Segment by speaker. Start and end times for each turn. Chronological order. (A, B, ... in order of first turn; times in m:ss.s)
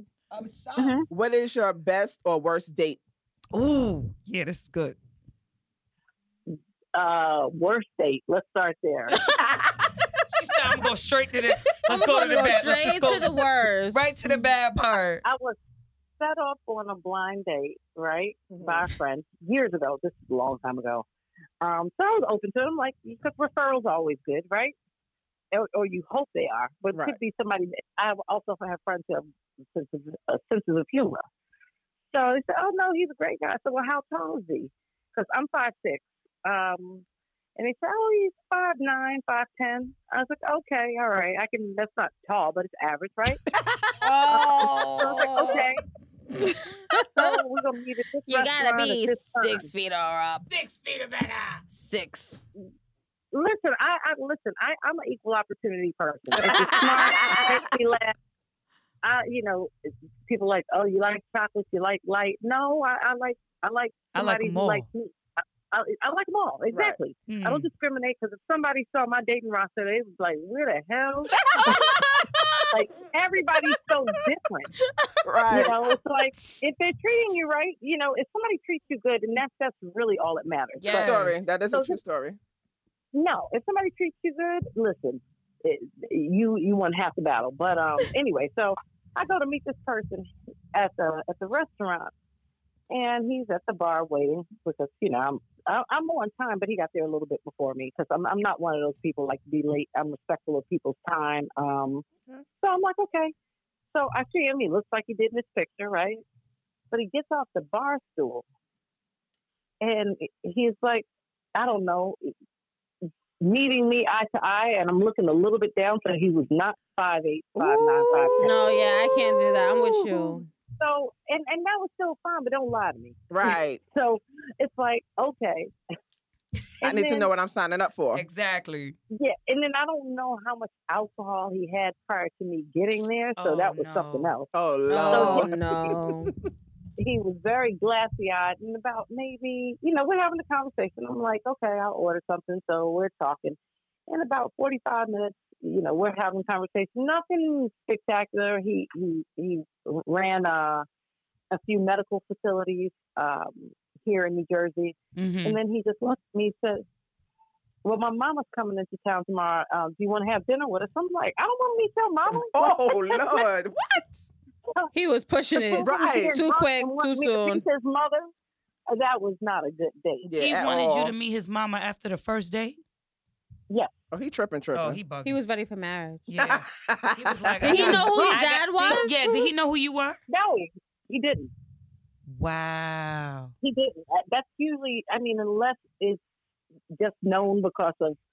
0:00.3-0:01.0 A
0:00.8-0:01.1 B
0:01.1-0:03.0 C
0:03.5-0:05.0 A
0:06.5-0:09.2 B
0:10.3-0:13.3 A
0:11.9-0:14.0 D
0:13.9-0:15.2 A
0:15.2-0:15.6 B
0:16.2-0:21.0 B
0:18.5-0:18.8 C
0:21.6-0:24.7 B
0:25.5-0:31.2 B
0:32.1-0:37.0 B
0:37.6-0:43.4 B
0:43.5-0:43.9 C
0:44.0-0:45.6 D
0:44.3-0:45.8 B
0:46.5-0:47.3 D
0:47.2-0:49.7 B
0:48.3-0:50.4 D
0:50.5-0:51.8 A
0:51.9-0:52.3 D
0:53.3-0:58.1 B
0:56.4-0:57.6 C
0:59.0-1:11.3 B
1:04.1-1:04.8 A
1:06.7-1:07.0 C
1:07.3-1:07.7 A
1:11.5-1:12.6 C
1:12.7-1:14.7 B
1:15.2-1:15.8 C
1:15.5-1:22.0 B
1:20.8-1:21.4 A
1:20.9-1:22.4 C
1:23.1-1:32.1 B
1:32.9-1:42.0 B
1:42.6-1:43.3 B
1:43.9-1:46.2 B
1:46.9-1:48.4 B
1:49.8-1:52.3 B
1:53.4-1:58.6 B
1:57.6-1:58.5 C
1:58.4-2:00.4 D
1:59.8-2:05.7 B
2:03.3-2:03.8 C
2:06.8-2:07.3 B
2:06.8-2:08.2 C
2:08.1-2:08.9 A
2:09.1-2:14.5 B
2:13.4-2:14.3 A
2:14.5-2:16.3 C
2:14.9-2:16.3 D
2:15.0-2:15.5 B
2:17.0-2:23.6 B
2:24.1-2:30.8 B
2:31.5-2:36.8 B
2:35.2-2:35.6 A
2:37.8-2:43.4 B
2:42.3-2:44.2 C
2:44.9-2:47.6 D
2:45.5-2:48.3 B
2:45.8-2:46.4 C
2:48.9-2:50.3 B
2:50.2-2:51.1 C
2:50.4-2:52.8 A
2:54.1-2:55.0 C
2:54.7-2:55.4 A
2:55.2-2:56.3 D
2:56.3-3:00.2 A
2:56.4-2:58.1 C
2:57.6-2:59.1 D
2:57.9-2:59.5 B
3:00.3-3:01.5 B
3:02.3-3:03.5 A
3:03.6-3:06.2 B
3:06.9-3:08.2 B